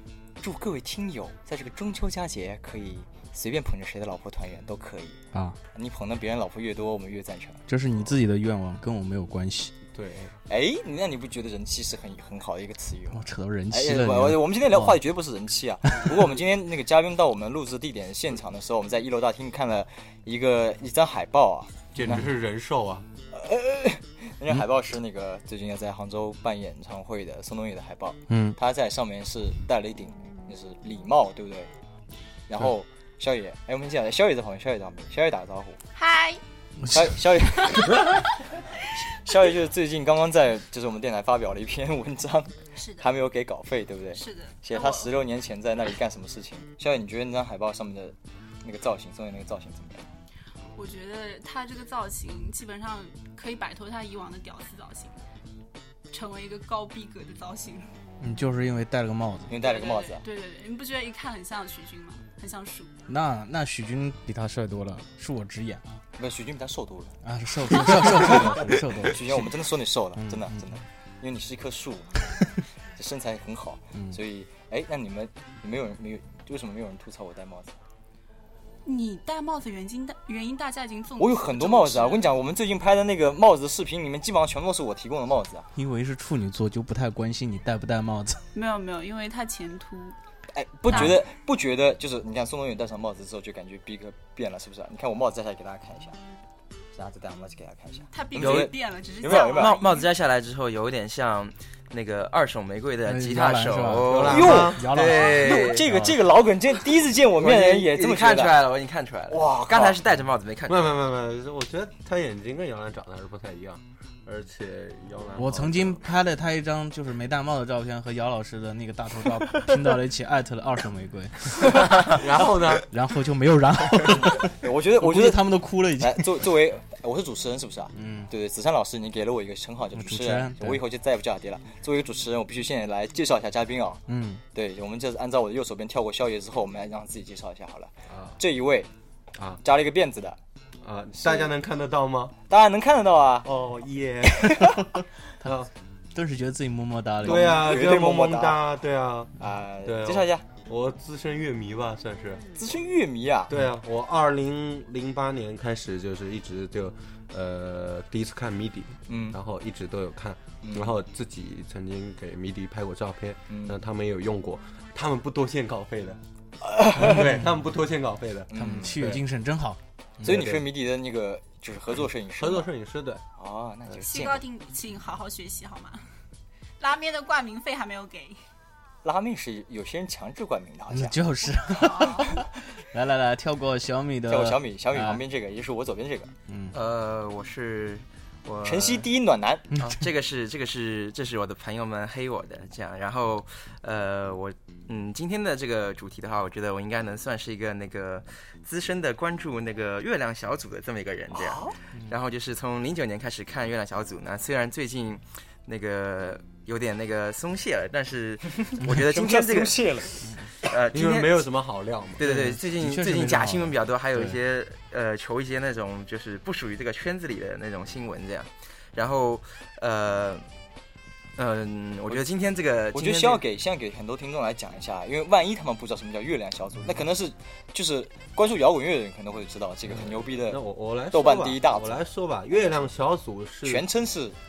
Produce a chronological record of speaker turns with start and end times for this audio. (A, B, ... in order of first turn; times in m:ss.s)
0:00.4-0:05.2 A
0:05.7-0:07.6 A
0:07.7-0:09.7 B
0:09.9-0:10.3 C
0:10.5-0:22.2 A
0:13.1-0:15.0 B
0:15.9-0:16.3 B
0:21.9-0:23.1 C
0:23.3-0:31.7 A
0:28.3-0:28.6 B
0:32.5-0:35.8 A
0:35.9-0:36.4 D
0:36.8-0:37.2 B
0:36.9-0:38.2 A
0:37.7-0:38.1 D
0:39.2-0:50.0 A
0:42.8-0:43.1 D
0:44.1-0:45.1 D
0:50.8-0:55.2 D
0:56.1-0:57.9 D
0:58.2-0:59.5 B
0:59.5-1:00.2 A
0:59.6-1:03.0 D
1:03.1-1:05.8 B
1:06.2-1:07.2 A
1:07.2-1:09.5 B
1:07.7-1:12.3 A
1:10.2-1:10.6 B
1:13.0-1:17.7 A
1:13.9-1:14.2 B
1:18.8-1:22.3 D
1:21.2-1:25.7 A
1:25.7-1:28.4 B
1:28.5-1:30.2 D
1:30.5-1:36.2 A
1:30.9-1:31.2 D
1:36.9-1:39.8 A
1:38.1-1:40.1 D
1:38.4-1:45.9 E
1:43.0-1:46.1 B
1:44.0-1:45.0 C
1:44.3-1:48.6 A
1:47.4-1:50.8 E
1:49.3-1:50.0 A
1:50.6-1:56.0 C
1:55.3-2:02.2 B
2:02.0-2:02.9 C
2:02.8-2:06.4 B
2:04.1-2:14.0 A
2:07.9-2:08.3 B
2:09.9-2:10.8 B
2:14.1-2:14.4 B
2:14.5-2:18.9 A
2:18.1-2:18.4 C
2:19.6-2:20.4 A
2:20.8-2:22.3 C
2:22.5-2:23.5 A
2:23.4-2:24.6 C
2:24.4-2:24.8 A
2:25.0-2:25.5 B
2:25.4-2:25.7 C
2:26.1-2:27.6 B
2:27.2-2:29.3 C
2:27.2-2:28.6 A
2:29.4-2:30.4 A
2:29.8-2:32.4 C
2:32.6-2:33.5 A
2:33.5-2:46.2 C
2:39.1-2:39.4 A
2:40.6-2:40.9 A
2:43.5-2:43.8 A
2:46.6-2:47.3 A
2:47.0-2:49.2 C
2:47.2-2:47.4 B
2:48.5-2:49.0 A
2:48.5-2:50.4 B
2:50.2-2:52.7 A
2:50.2-2:50.6 C
2:52.4-2:53.2 C
2:53.4-2:54.4 A
2:54.0-2:56.0 D
2:56.8-2:58.4 D
2:59.0-3:01.2 A
3:00.9-3:05.2 B
3:01.7-3:02.3 D
3:02.0-3:02.3 A
3:04.3-3:06.3 A
3:06.5-3:06.8 B
3:06.7-3:09.1 E
3:08.6-3:09.6 A
3:09.7-3:10.0 B
3:09.8-3:29.9 E
3:21.3-3:21.7 A
3:28.9-3:30.2 A
3:30.6-3:31.5 E
3:30.9-3:32.2 C
3:32.2-3:40.4 E
3:32.2-3:34.4 B
3:41.4-3:43.4 E
3:42.9-3:52.0 A
3:49.9-3:53.8 C
3:53.6-3:54.4 A